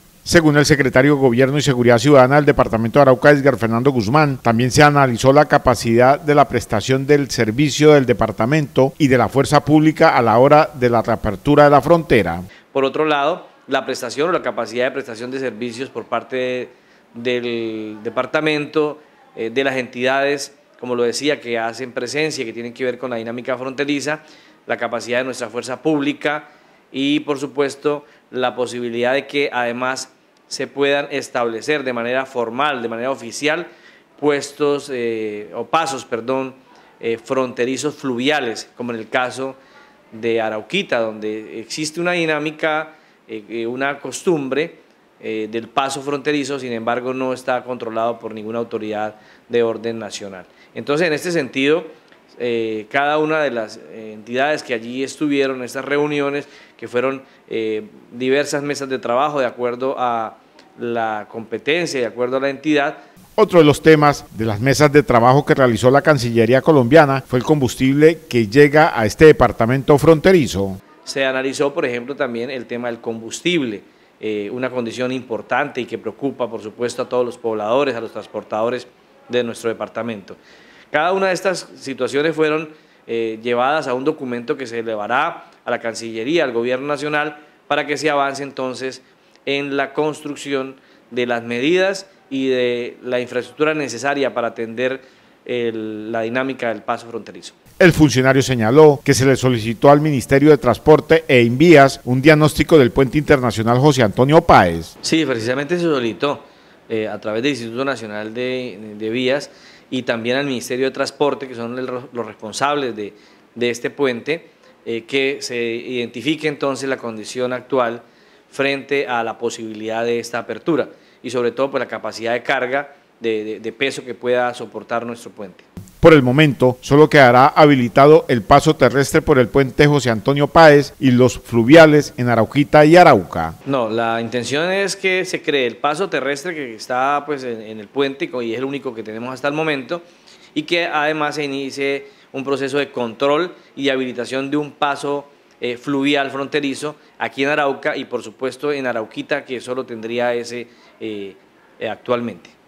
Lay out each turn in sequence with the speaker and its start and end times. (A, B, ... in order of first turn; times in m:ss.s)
0:00.2-0:12.5 A
0:12.7-0:39.6 B
0:40.1-1:03.0 B
1:03.4-1:10.8 A
1:11.0-1:20.4 B
1:20.9-1:37.6 B
1:37.8-1:44.9 A
1:45.0-2:05.6 B
2:06.0-2:13.6 A
2:13.6-2:32.5 B